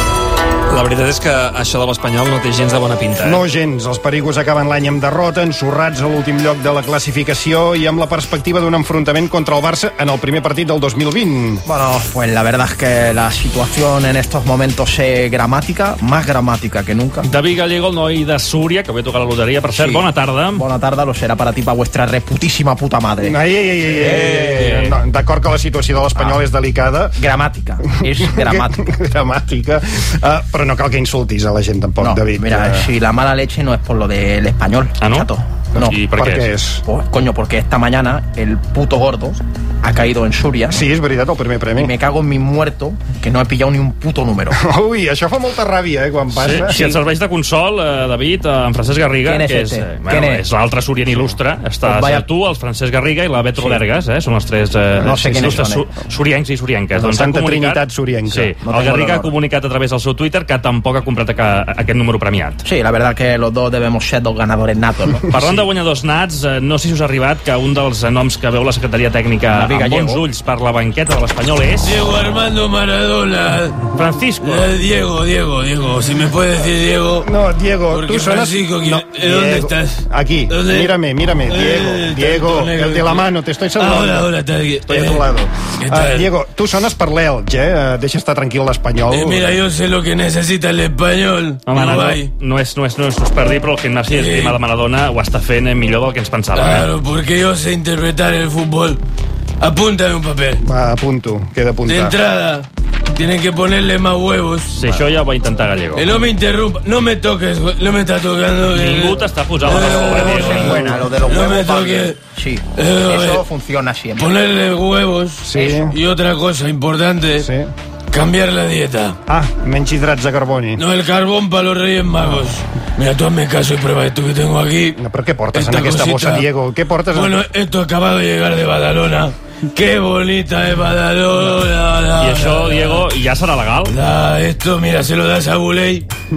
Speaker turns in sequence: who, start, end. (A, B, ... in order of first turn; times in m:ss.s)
0:00.7-0:03.4 A
0:03.2-0:11.6 B
0:11.7-0:17.3 C
0:17.2-0:20.6 D
0:19.7-0:23.4 C
0:23.2-0:27.2 B
0:24.0-0:24.9 A
0:26.2-0:26.4 C
0:27.2-0:28.8 C
0:28.4-0:32.9 B
0:32.0-0:36.0 C
0:35.0-0:35.3 D
0:35.7-0:36.8 B
0:35.8-0:36.5 D
0:36.9-0:40.8 C
0:40.7-0:42.0 B
0:41.8-0:44.6 C
0:44.5-0:47.0 B
0:46.3-1:02.6 D
0:46.6-0:47.0 C
0:49.2-0:50.4 C
0:51.8-0:52.3 C
0:53.6-0:53.8 C
0:55.0-0:55.9 C
0:55.0-0:55.6 B
0:57.0-0:58.5 B
0:58.6-0:59.4 C
1:02.6-1:05.5 C
1:05.3-1:12.1 D
1:09.5-1:10.2 C
1:11.8-1:17.3 E
1:13.9-1:14.7 D
1:17.2-1:24.3 B
1:17.9-1:25.3 E
1:24.8-1:29.6 B
1:25.8-1:26.3 E
1:29.1-1:32.3 E
1:31.7-1:36.9 D
1:34.1-1:34.6 E
1:36.5-1:39.0 E
1:39.6-1:40.6 E
1:40.6-1:42.2 B
1:41.9-1:45.0 E
1:44.7-1:46.1 D
1:46.0-1:52.2 E
1:48.7-1:51.0 D
1:49.6-1:54.3 C
1:52.8-1:53.5 E
1:54.2-1:57.5 E
1:55.4-1:56.0 B
1:57.4-1:57.7 B
1:58.1-1:59.2 E
1:59.3-2:00.8 B
2:00.8-2:05.0 E
2:05.0-2:07.4 B
2:05.5-2:06.5 E
2:07.1-2:13.1 E
2:12.2-2:14.0 D
2:13.9-2:16.1 E